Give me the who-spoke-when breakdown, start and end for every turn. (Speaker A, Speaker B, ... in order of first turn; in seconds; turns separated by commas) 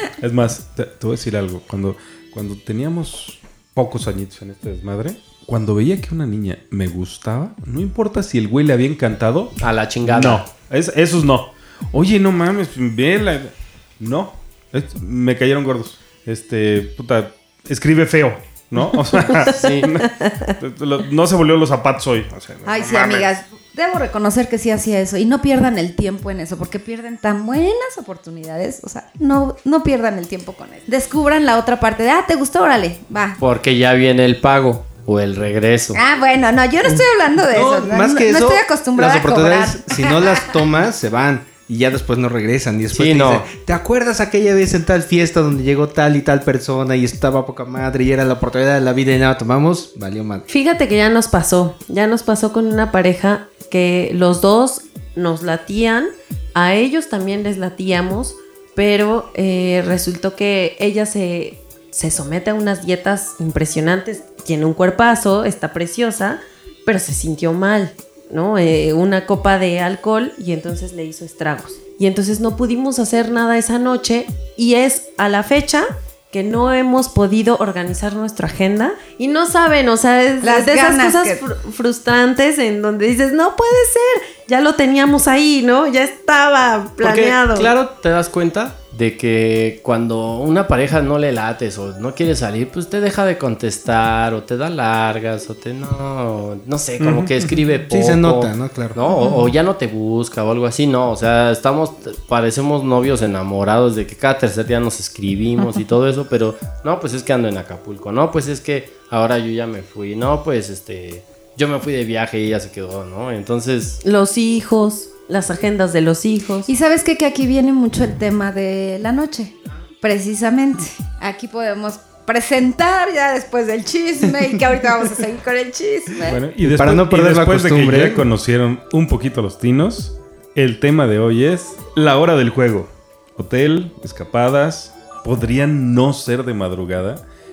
Speaker A: 0.2-9.5, Speaker B: 9.6-10.5, Speaker A: 10.1-23.4, Speaker C: 19.2-20.5, Speaker B: 19.5-19.9, Speaker D: 22.7-33.4, Speaker B: 33.4-36.0, Speaker D: 36.0-40.5, Speaker E: 37.5-50.5, Speaker B: 42.9-43.5, Speaker C: 50.5-87.7, Speaker D: 80.4-81.4, Speaker B: 87.0-114.0, Speaker A: 97.0-97.6, Speaker E: 97.9-99.0, Speaker C: 114.0-116.7, Speaker D: 116.7-126.5, Speaker A: 126.2-137.2, Speaker E: 126.6-128.3